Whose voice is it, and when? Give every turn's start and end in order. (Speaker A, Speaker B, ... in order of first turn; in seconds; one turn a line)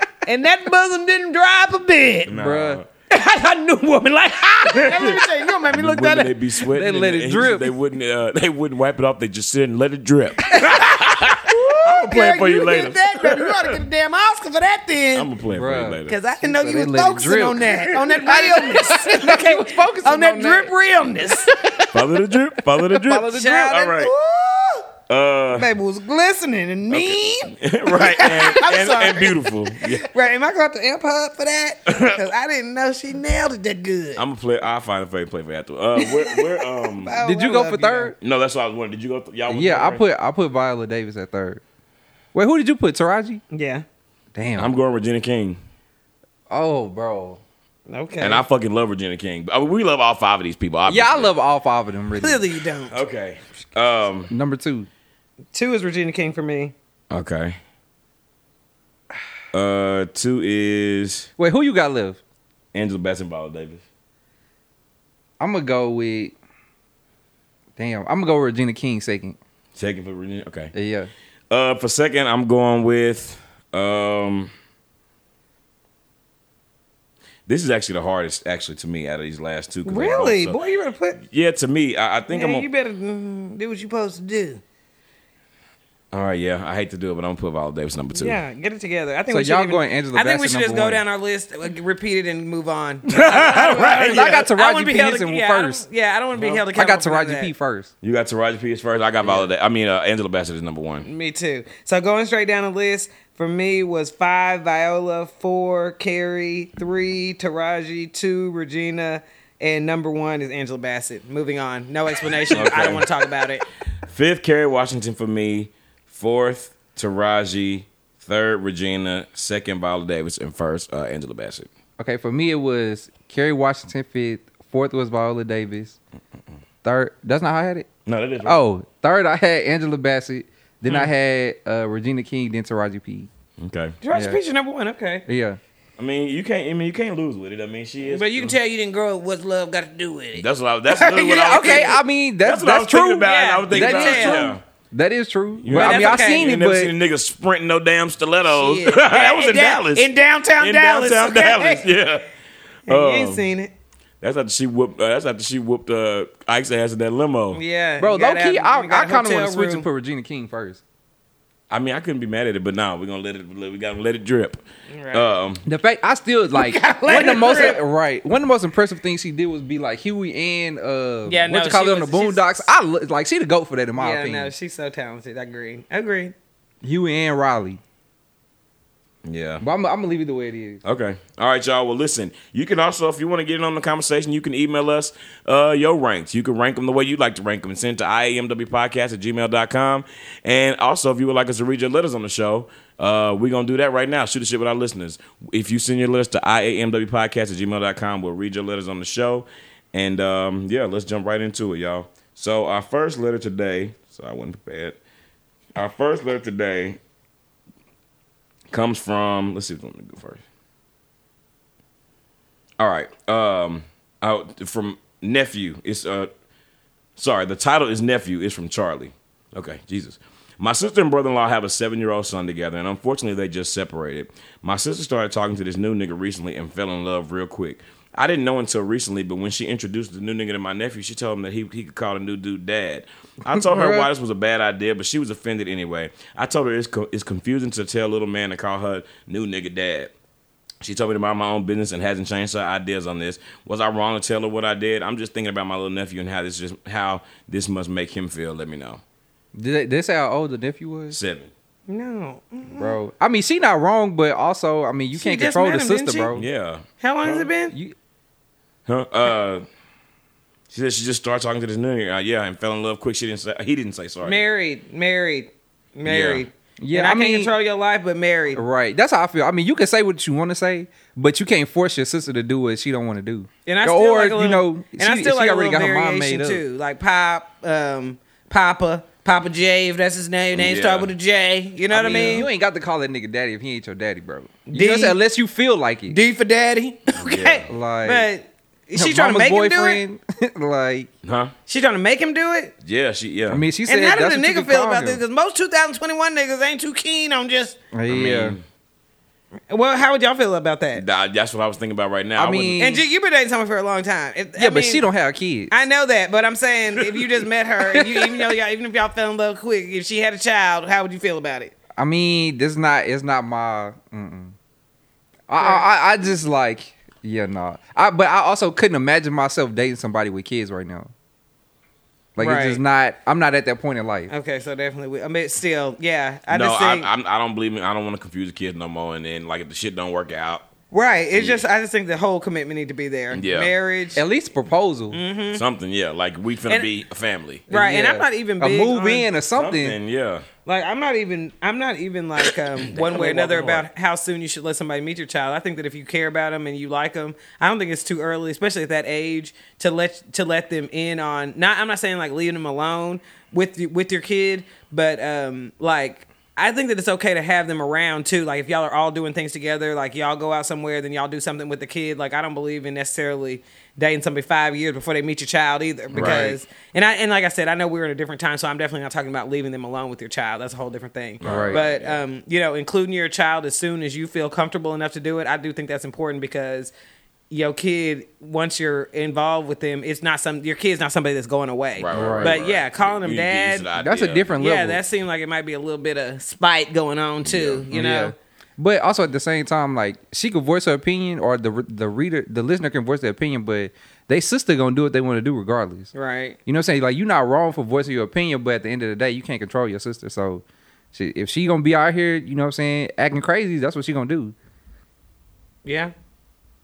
Speaker A: 0.2-2.3
Speaker B: 2.3-2.9
Speaker C: 2.4-2.8
Speaker A: 3.1-6.3
Speaker B: 4.7-13.8
Speaker C: 6.7-7.7
Speaker A: 10.5-15.3
Speaker B: 15.1-16.1
Speaker C: 15.5-20.7
Speaker A: 16.1-21.8
Speaker C: 21.3-22.0
Speaker B: 21.9-24.1
Speaker C: 23.0-23.5
Speaker A: 23.0-24.9
Speaker B: 25.1-25.7
Speaker A: 25.5-34.2
Speaker B: 26.9-30.1
Speaker B: 31.9-32.2
Speaker B: 34.2-37.1
Speaker A: 36.0-38.1
Speaker C: 37.2-38.1
Speaker B: 38.2-40.0
Speaker C: 39.5-41.6
Speaker C: 42.3-43.4
Speaker A: 43.5-43.8
Speaker C: 44.3-44.7
Speaker B: 44.6-45.6
Speaker C: 46.5-47.4
Speaker A: 47.9-48.4
Speaker B: 48.2-51.3
Speaker C: 50.9-52.4
Speaker A: 52.2-53.0
Speaker B: 52.9-54.3
Speaker C: 54.3-54.9
Speaker A: 55.5-56.7
Speaker B: 57.1-57.6
Speaker B: 59.5-61.3
Speaker C: 61.4-62.2
Speaker B: 62.7-63.8
Speaker C: 65.4-66.3
Speaker C: 67.8-69.4
Speaker B: 69.8-70.7
Speaker C: 70.7-71.1
Speaker B: 71.5-74.5
Speaker B: 77.5-80.6
Speaker A: 79.8-81.2
Speaker B: 81.2-82.7
Speaker A: 82.3-84.6
Speaker B: 86.1-88.4
Speaker A: 88.1-97.5
Speaker C: 89.3-91.0
Speaker B: 93.1-94.4
Speaker C: 93.8-95.8
Speaker C: 96.4-97.9
Speaker B: 98.0-101.0
Speaker A: 101.0-113.6
Speaker B: 112.5-113.1
Speaker B: 114.0-121.7
Speaker C: 122.0-126.0
Speaker C: 126.8-127.9
Speaker B: 128.1-128.6
Speaker C: 128.4-133.3
Speaker B: 133.6-134.0
Speaker A: 134.0-135.2
Speaker C: 134.1-134.4
Speaker C: 135.3-135.6
Speaker B: 136.0-138.5
Speaker A: 138.1-142.0
Speaker B: 140.3-144.6
Speaker C: 141.4-146.9
Speaker A: 143.2-144.5
Speaker B: 145.6-150.1
Speaker A: 145.7-146.5
Speaker A: 148.5-151.8
Speaker B: 150.6-152.3
Speaker B: 152.9-153.4
Speaker A: 152.9-153.7
Speaker B: 154.2-157.6
Speaker A: 157.5-159.8
Speaker C: 158.0-160.8
Speaker B: 161.7-164.6
Speaker A: 164.9-165.3
Speaker B: 165.1-165.6
Speaker C: 165.7-174.5
Speaker A: 166.5-167.8
Speaker A: 171.3-172.7
Speaker A: 174.0-176.3
Speaker C: 176.8-177.8
Speaker B: 179.2-179.6
Speaker C: 179.6-180.8
Speaker B: 180.8-205.0
Speaker B: 205.8-207.0
Speaker B: 208.7-210.4
Speaker B: 212.8-216.3
Speaker B: 217.2-240.1
Speaker C: 233.5-234.1
Speaker B: 240.8-249.0
Speaker C: 249.5-251.2
Speaker B: 251.1-251.5
Speaker A: 251.9-253.0
Speaker C: 252.8-256.4
Speaker A: 255.1-256.3
Speaker B: 256.3-257.5
Speaker A: 257.0-257.7
Speaker B: 258.9-259.6
Speaker B: 260.7-264.4
Speaker A: 264.2-268.6
Speaker B: 266.1-266.4
Speaker C: 266.8-267.5
Speaker C: 268.5-276.6
Speaker A: 273.6-282.5
Speaker B: 280.5-281.1
Speaker B: 281.9-282.5
Speaker C: 282.0-286.2
Speaker A: 284.7-285.2
Speaker A: 286.1-290.0
Speaker B: 287.1-287.7
Speaker C: 287.7-288.3
Speaker C: 288.9-291.1
Speaker B: 291.2-291.5
Speaker A: 291.7-292.7
Speaker B: 292.8-293.6
Speaker C: 293.5-295.2
Speaker A: 293.9-297.8
Speaker C: 297.9-298.6
Speaker B: 298.1-298.6
Speaker A: 299.7-301.0
Speaker B: 300.9-302.8
Speaker C: 302.4-303.0
Speaker A: 302.8-305.0
Speaker C: 304.6-305.7
Speaker A: 305.7-311.7
Speaker C: 312.0-314.5
Speaker C: 315.5-321.1
Speaker A: 315.6-315.8
Speaker C: 322.4-324.3
Speaker A: 322.4-322.8
Speaker A: 324.3-327.1
Speaker B: 326.5-330.6
Speaker A: 330.9-334.2
Speaker B: 331.3-331.6
Speaker B: 333.3-333.7
Speaker C: 334.1-335.2
Speaker A: 335.1-335.6
Speaker B: 335.5-337.7
Speaker A: 337.7-339.3
Speaker C: 337.7-340.0
Speaker B: 339.5-340.4
Speaker A: 340.6-376.9
Speaker B: 342.9-343.8
Speaker C: 366.1-366.5
Speaker B: 366.1-366.6
Speaker B: 371.4-372.2
Speaker C: 371.4-371.8
Speaker A: 377.5-383.9
Speaker B: 382.0-384.5
Speaker C: 382.1-382.6
Speaker C: 384.0-385.0
Speaker A: 384.6-388.3
Speaker B: 387.4-387.9
Speaker C: 387.9-396.1
Speaker A: 396.1-396.6
Speaker C: 396.6-404.5
Speaker A: 405.8-406.1